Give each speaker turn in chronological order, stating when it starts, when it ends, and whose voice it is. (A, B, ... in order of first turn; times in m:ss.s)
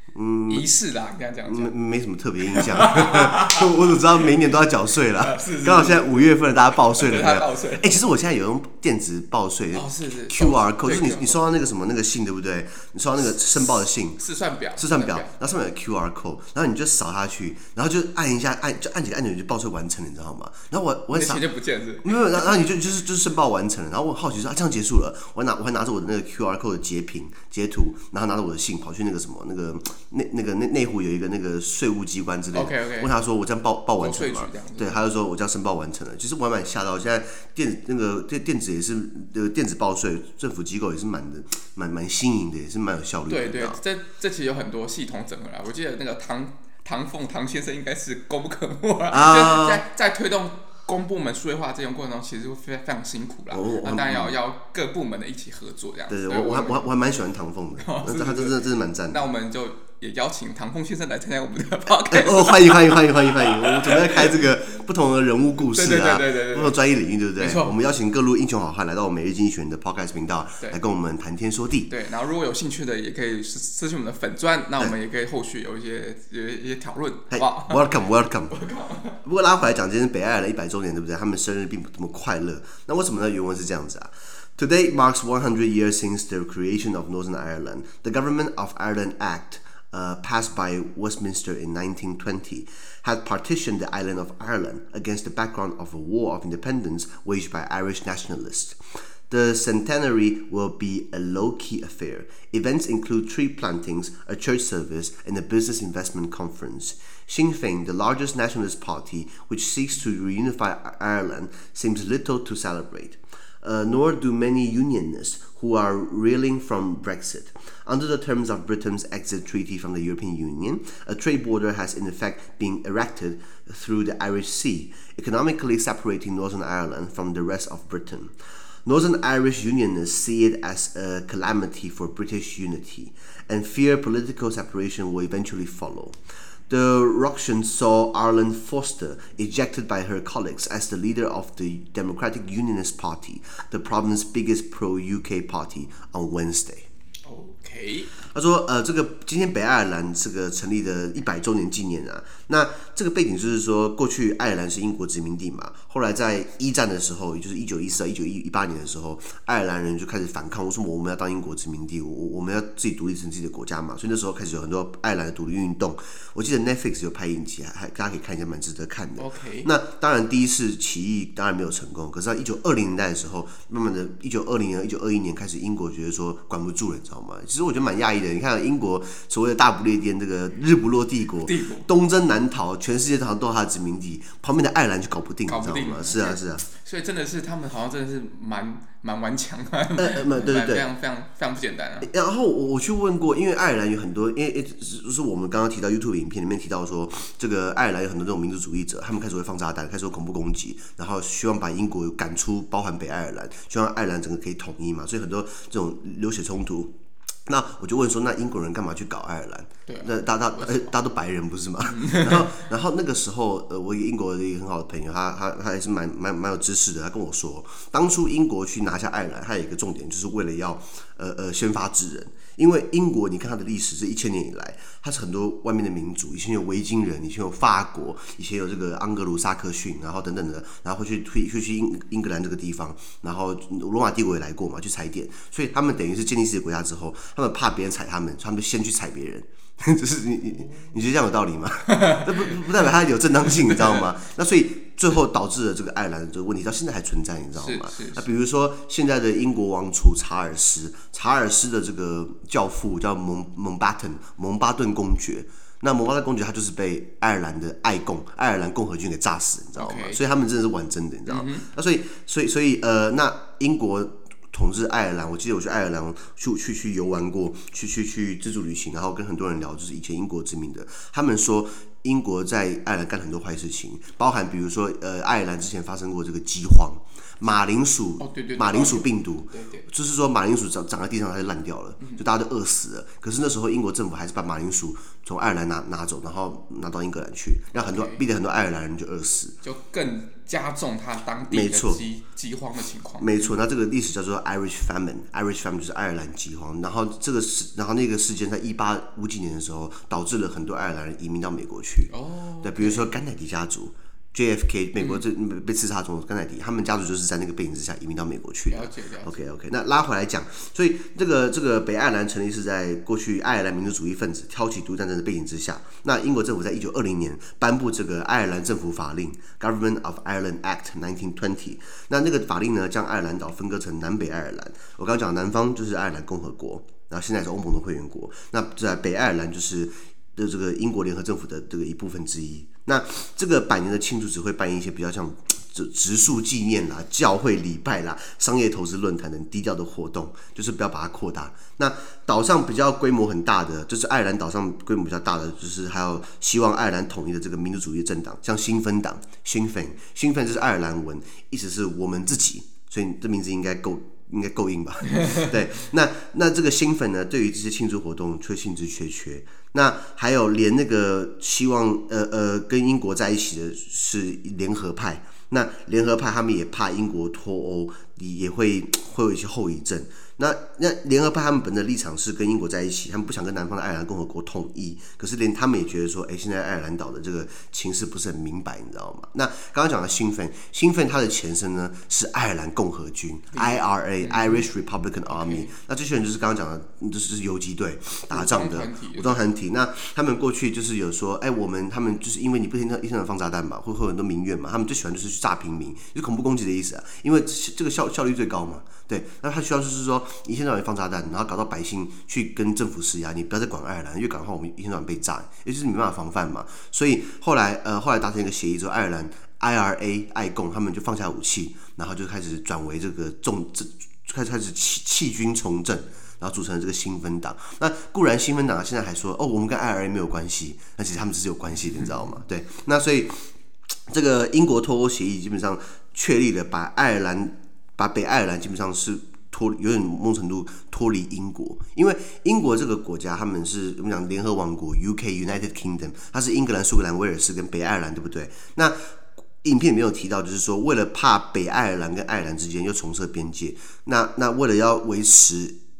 0:00.1-0:00.6 A
0:00.5-0:01.7 B
0:01.5-0:14.2 A
0:02.5-0:03.9 B
0:05.1-0:08.0 B
0:09.7-0:11.4 B
0:14.2-0:15.3 B
0:14.8-0:21.4 A
0:21.1-0:22.7 B
0:22.0-0:43.8 A
0:32.5-0:33.1 B
0:34.0-0:35.0 B
0:43.3-0:56.8 B
0:49.1-0:49.8 A
0:53.5-0:54.4 A
0:56.1-0:59.2 A
0:57.8-1:04.5 B
1:01.9-1:11.9 A
1:05.7-1:06.8 B
1:07.4-1:07.7 B
1:11.9-1:17.9 B
1:17.3-1:18.6 A
1:18.5-1:19.2 B
1:19.2-2:16.2 A
2:16.7-2:26.9 A
2:27.2-2:28.2 B
2:28.2-3:06.6 A
2:49.2-2:49.7 B
3:01.4-3:01.9 B
3:05.5-3:12.1 B
3:10.0-3:10.9 A
3:12.0-3:26.9 A
3:27.5-4:49.5 A
3:29.9-3:30.9 B
3:31.8-3:32.6 B
4:00.6-4:00.9 B
4:01.9-4:02.7 B
4:03.6-4:04.0 B
4:07.6-4:08.2 B
4:19.8-4:20.2 B
4:21.3-4:21.7 B
4:38.2-4:39.9 B
4:47.7-4:48.2 B
4:49.6-4:53.5 B
4:51.5-4:52.0 A
4:53.2-5:02.1 A
5:02.1-5:03.1 B
5:02.6-7:03.5 A
5:05.0-5:05.2 B
5:08.7-5:09.4 B
6:23.5-6:24.6 B
6:25.2-6:25.7 B
6:28.3-6:29.4 B
7:04.1-7:25.8 A